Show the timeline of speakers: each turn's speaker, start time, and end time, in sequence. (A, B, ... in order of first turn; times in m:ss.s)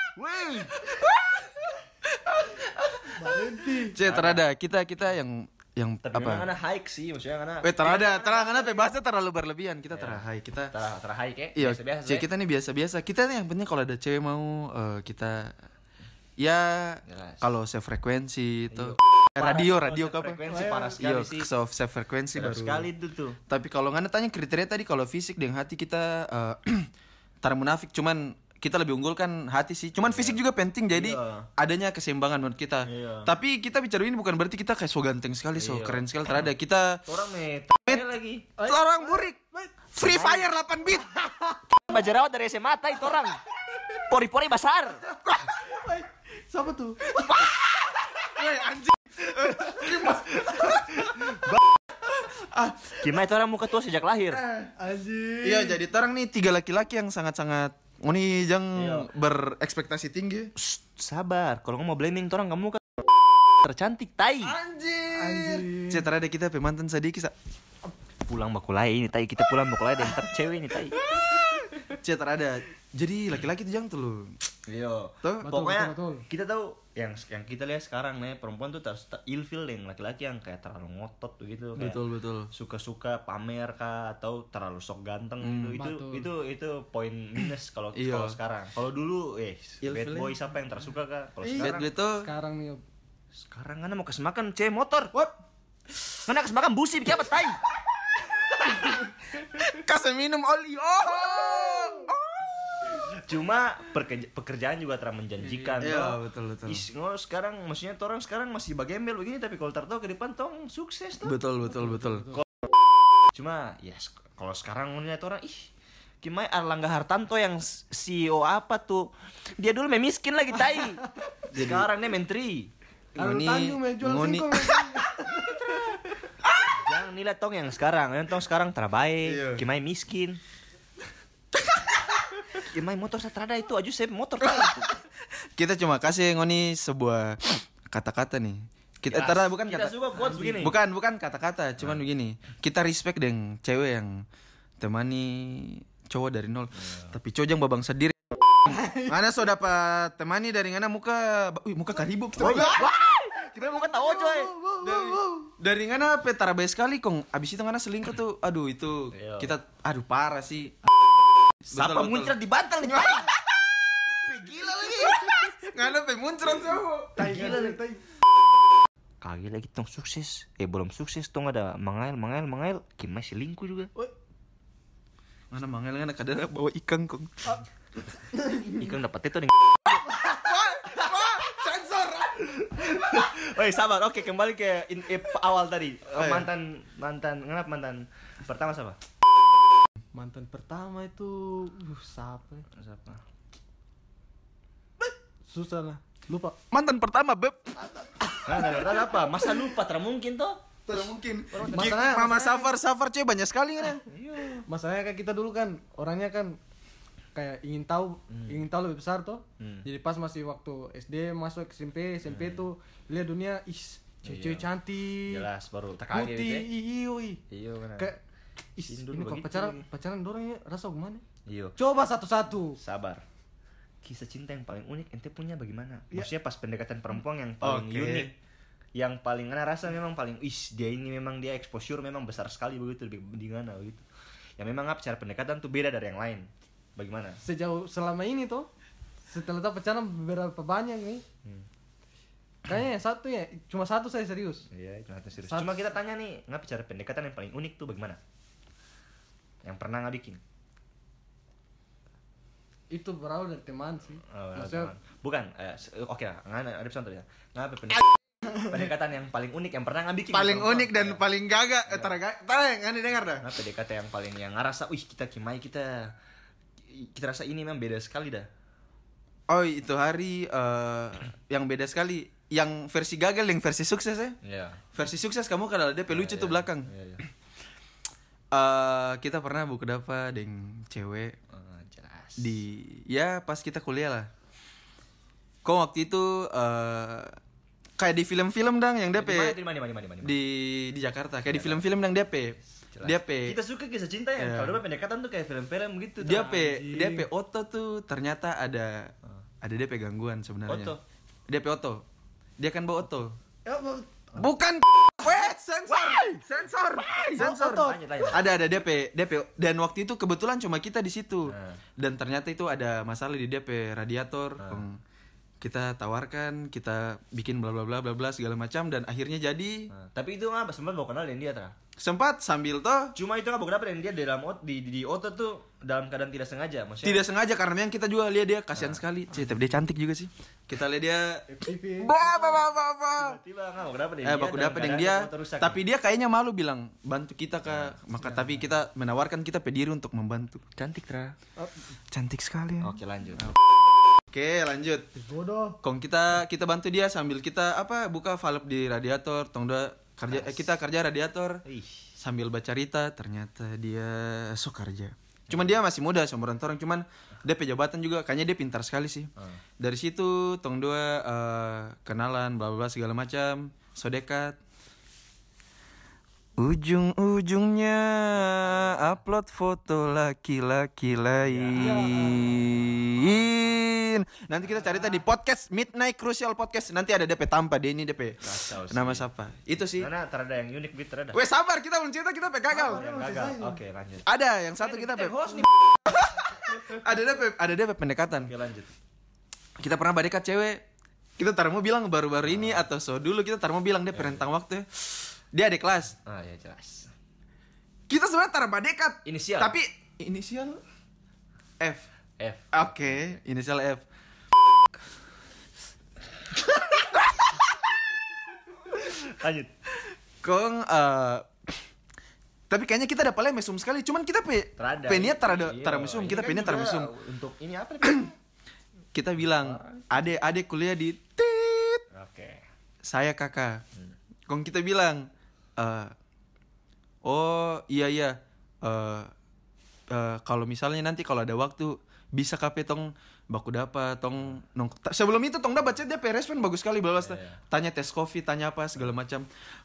0:00.2-0:00.9 A
0:00.8-0:06.5 B
0:03.2-0:04.0 C
0:04.0-0:04.4 A
0:06.0-0:08.8 A
0:07.6-0:10.7 B
0:09.9-0:12.3 A
0:11.6-0:15.6 B
0:16.4-0:20.4 B
0:17.0-0:17.5 A
0:18.7-0:21.5 A
0:20.5-0:21.0 C
0:21.0-0:22.9 B
0:22.3-0:23.4 A
0:23.5-0:26.9 B
0:27.4-0:37.0 B
0:30.0-0:30.4 A
0:30.9-0:31.5 A
0:32.8-0:33.3 A
0:35.6-0:36.5 A
0:37.1-0:38.5 A
0:38.6-0:39.7 C
0:38.6-0:39.4 B
0:39.9-0:41.1 B
0:40.0-0:40.4 A
0:41.1-0:41.6 C
0:41.8-0:43.4 A
0:44.0-0:45.0 A
0:45.7-0:47.3 C
0:47.3-0:51.3 B
0:50.5-0:51.6 A
0:52.1-0:53.0 B
0:53.0-0:54.4 A
0:54.5-0:55.8 C
0:55.4-1:00.5 B
0:58.8-0:59.1 A
1:00.6-1:02.8 A
1:03.6-1:04.6 A
1:04.4-1:07.3 B
1:05.1-1:06.1 C
1:08.3-1:11.0 A
1:11.8-1:14.4 B
1:14.7-1:31.9 A
1:15.4-1:16.2 C
1:21.8-1:22.5 B
1:25.4-1:25.8 B
1:25.8-1:26.3 C
1:27.9-1:28.4 B
1:29.8-1:30.4 B
1:31.4-1:32.8 C
1:31.6-1:32.3 B
1:33.4-1:35.1 A
1:36.2-1:37.6 A
1:39.6-1:43.0 B
1:43.1-1:51.4 A
1:45.5-1:45.7 C
1:45.8-1:46.8 B
1:51.2-1:52.3 B
1:51.8-1:52.3 C
1:53.3-1:55.7 A
1:56.2-2:02.7 A
2:01.5-2:01.9 B
2:03.2-2:04.8 B
2:03.2-2:05.6 C
2:06.5-2:06.8 B
2:06.7-2:10.4 A
2:09.2-2:09.6 B
2:12.6-2:14.9 A
2:15.6-2:19.9 B
2:19.1-2:20.8 A
2:20.2-2:20.6 C
2:20.6-2:24.2 B
2:24.8-2:32.9 B
2:26.8-2:27.1 A
2:28.7-2:29.1 C
2:32.4-2:34.6 A
2:34.2-2:35.4 C
2:34.8-2:40.8 B
2:39.1-2:39.5 A
2:41.7-2:43.4 B
2:41.7-2:43.3 A
2:44.3-2:45.3 A
2:44.6-2:47.3 B
2:47.2-2:48.0 C
2:47.2-2:47.8 A
2:49.2-2:53.9 A
2:55.5-2:57.5 B
2:58.7-2:59.5 A
3:00.4-3:02.4 B
3:02.4-3:09.0 A
3:06.2-3:06.5 B
3:10.1-3:12.7 C
3:12.7-3:13.2 A
3:15.5-3:16.6 C
3:16.7-3:17.7 B
3:18.0-3:18.8 C
3:18.4-3:22.0 A
3:20.9-3:24.1 B
3:21.6-3:22.7 C
3:24.1-3:24.7 A
3:24.7-3:26.6 C
3:27.4-3:35.5 C
3:28.3-3:28.6 A
3:29.6-3:29.9 A
3:32.2-3:32.7 A
3:34.2-3:34.7 A
3:35.2-3:36.7 A
3:36.1-3:37.4 C
3:37.5-3:38.1 A
3:38.8-3:41.2 C
3:38.9-3:39.8 A
3:41.5-3:41.8 A
3:41.8-3:42.8 C
3:42.8-3:43.2 A
3:44.0-3:48.3 A
3:47.6-3:48.3 B
3:49.0-3:54.1 A
3:54.6-3:57.4 A
3:57.4-3:58.7 C
3:59.3-4:01.2 C
4:02.7-4:04.6 C
4:04.7-4:08.2 A
4:05.5-4:05.8 C
4:09.6-4:10.4 A
4:12.9-4:14.9 C
4:14.3-4:21.2 A
4:20.3-4:23.4 B
4:21.9-4:22.1 A
4:23.4-4:26.2 A
4:26.9-4:28.5 A
4:29.5-4:34.4 B
4:34.4-4:34.8 A
4:34.9-4:36.9 B
4:36.1-4:37.2 A
4:38.5-4:41.3 B
4:41.5-4:42.6 A
4:42.4-4:44.3 B
4:45.6-4:47.4 B
4:48.0-4:49.6 B
4:49.1-4:50.4 A
4:50.2-4:53.6 B
4:51.5-4:51.8 A
4:52.9-4:56.7 A
4:54.4-4:54.8 B
4:56.2-5:00.9 B
4:56.6-4:57.3 C
5:00.7-5:01.0 A
5:01.5-5:02.0 B
5:02.6-5:03.4 B
5:03.7-5:04.1 C
5:04.4-5:15.0 B
5:07.3-5:08.0 C
5:07.4-5:08.4 A
5:11.5-5:11.8 A
5:14.6-5:14.8 A
5:15.6-5:19.9 B
5:19.9-5:21.8 A
5:22.0-5:23.1 B
5:23.2-5:27.2 A
5:27.0-5:31.5 B
5:28.8-5:29.0 A
5:31.5-5:32.5 C
5:32.0-5:33.4 B
5:33.2-5:35.8 A
5:34.2-5:40.6 B
5:37.7-5:38.0 A
5:38.3-5:38.6 C
5:40.8-5:41.4 A
5:42.1-5:43.0 B
5:42.8-5:43.5 A
5:44.3-5:45.1 B
5:45.2-5:45.8 C
5:45.8-5:51.6 B
5:50.3-5:50.7 A
5:51.6-5:52.1 A
5:52.2-6:04.6 B
5:55.5-5:55.8 A
5:59.4-5:59.6 A
6:06.6-6:20.1 B
6:08.3-6:09.2 A
6:11.4-6:13.9 A
6:11.8-6:12.6 C
6:14.7-6:15.1 A
6:18.4-6:19.3 A
6:19.9-6:21.4 A
6:21.3-6:23.1 B
6:22.7-6:23.8 C
6:22.8-6:24.3 A
6:24.3-6:28.5 B
6:28.5-6:28.9 A
6:29.8-6:30.8 B
6:31.4-6:36.2 B
6:32.4-6:32.9 A
6:34.1-6:34.4 A
6:36.2-6:37.1 A
6:38.1-6:40.8 B
6:39.2-6:39.8 A
6:41.8-6:42.1 B
6:42.4-6:43.4 A
6:42.7-6:44.0 B
6:49.0-6:49.7 A
6:50.4-6:51.8 B
6:52.7-6:57.1 B
6:54.8-6:58.3 A
6:59.1-7:02.0 B
6:59.5-7:00.1 A
7:02.1-7:02.6 A
7:03.0-7:03.8 B
7:04.5-7:06.1 B
7:07.2-7:09.3 B
7:10.1-7:19.5 B
7:17.2-7:17.6 A